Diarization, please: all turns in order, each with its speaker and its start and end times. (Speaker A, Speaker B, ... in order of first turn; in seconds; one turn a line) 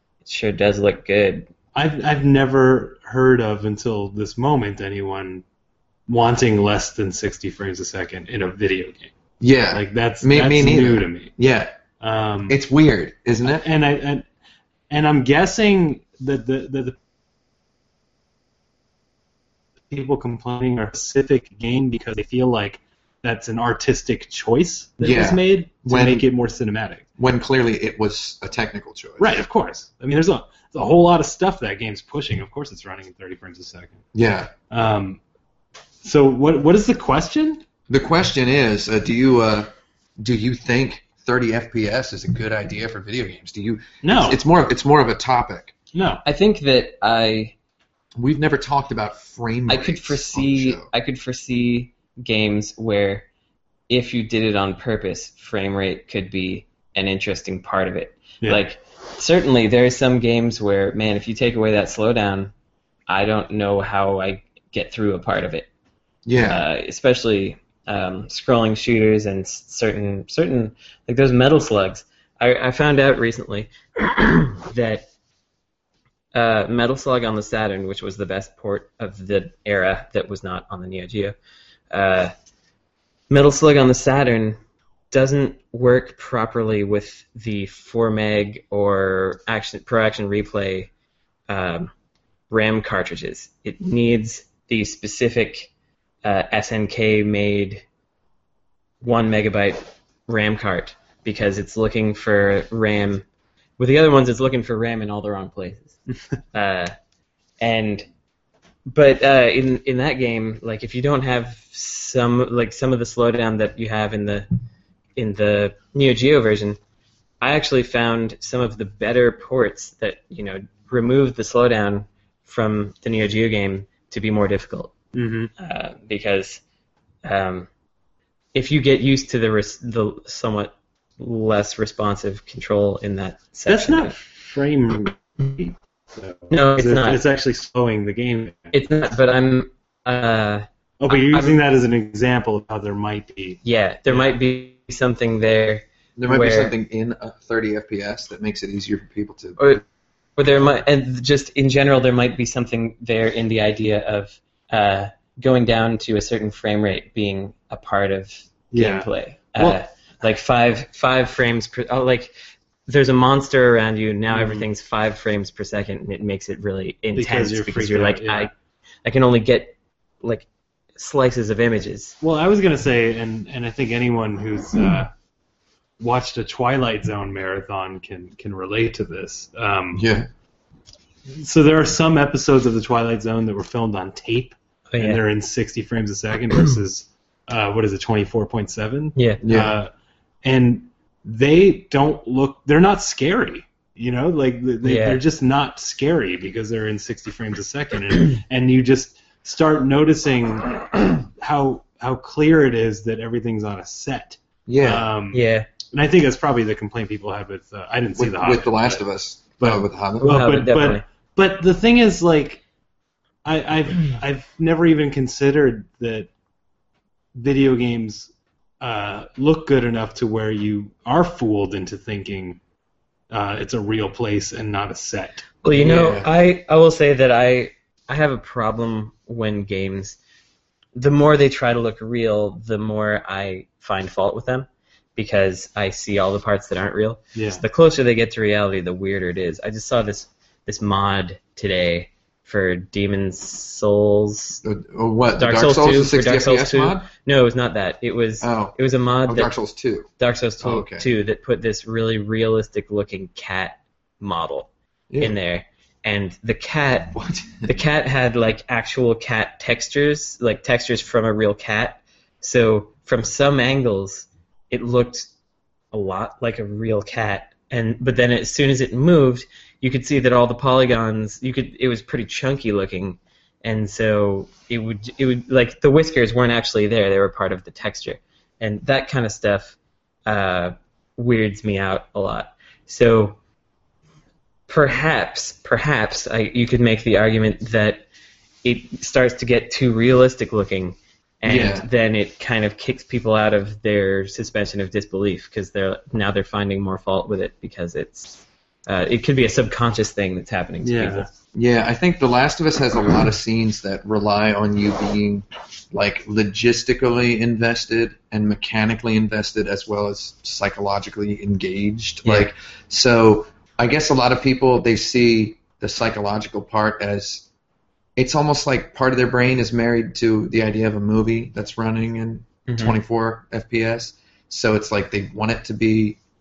Speaker A: 0.2-1.5
Speaker B: 1.7-5.4
Speaker B: 6.1-9.1
Speaker C: 9.4-11.7
Speaker B: 9.7-11.3
Speaker B: 12.0-12.6
Speaker C: 12.5-13.6
Speaker B: 13.4-14.2
Speaker B: 14.9-16.9
Speaker B: 19.9-27.0
Speaker C: 25.0-26.2
Speaker C: 27.2-29.4
Speaker B: 29.2-34.0
Speaker C: 34.1-34.5
Speaker B: 34.7-35.2
Speaker B: 36.0-37.6
Speaker C: 37.9-45.7
Speaker B: 44.0-44.4
Speaker B: 45.9-46.2
Speaker A: 46.2-47.5
Speaker C: 48.2-50.9
Speaker A: 49.7-53.2
Speaker A: 53.9-62.5
Speaker A: 63.1-65.7
Speaker C: 66.2-66.6
Speaker A: 66.4-75.0
Speaker A: 76.3-81.3
Speaker A: 81.9-82.3
Speaker A: 83.3-84.6
Speaker A: 85.1-90.9
Speaker A: 91.5-91.9
Speaker A: 92.5-95.7
Speaker A: 96.2-97.8
Speaker A: 99.0-103.2
Speaker A: 103.8-106.0
Speaker A: 106.5-106.9
Speaker A: 107.6-108.1
Speaker A: 108.9-114.5
Speaker A: 115.2-116.8
Speaker A: 117.4-124.9
Speaker B: 125.1-125.5
Speaker A: 125.6-126.6
Speaker A: 127.2-127.7
Speaker A: 128.5-134.1
Speaker B: 133.7-138.7
Speaker A: 136.5-137.2
Speaker A: 138.7-141.6
Speaker B: 141.0-144.3
Speaker A: 143.6-146.7
Speaker C: 146.2-149.8
Speaker A: 150.4-162.3
Speaker B: 158.7-159.8
Speaker A: 162.9-168.5
Speaker B: 164.3-164.7
Speaker B: 167.1-168.5
Speaker A: 169.0-172.2
Speaker B: 172.2-175.1
Speaker B: 176.0-180.0
Speaker C: 179.9-180.3
Speaker B: 181.3-189.9
Speaker A: 184.9-185.2
Speaker C: 189.4-189.7
Speaker B: 190.4-209.0
Speaker A: 194.8-195.2
Speaker C: 204.7-205.1
Speaker A: 205.3-205.7
Speaker C: 208.2-210.3
Speaker B: 209.6-212.6
Speaker A: 210.2-211.0
Speaker B: 213.4-216.3
Speaker B: 217.3-222.6
Speaker B: 223.3-225.6
Speaker A: 225.6-230.2
Speaker C: 225.7-226.3
Speaker A: 230.9-244.6
Speaker B: 237.3-237.6
Speaker C: 244.6-247.1
Speaker A: 245.4-249.5
Speaker C: 248.4-251.1
Speaker A: 250.2-265.3
Speaker C: 255.1-255.3
Speaker C: 257.1-257.7
Speaker A: 265.9-283.4
Speaker A: 284.7-288.1
Speaker A: 288.6-301.3
Speaker C: 291.4-291.9
Speaker B: 300.8-301.3
Speaker C: 301.5-317.4
Speaker C: 318.2-326.2
Speaker A: 322.7-322.9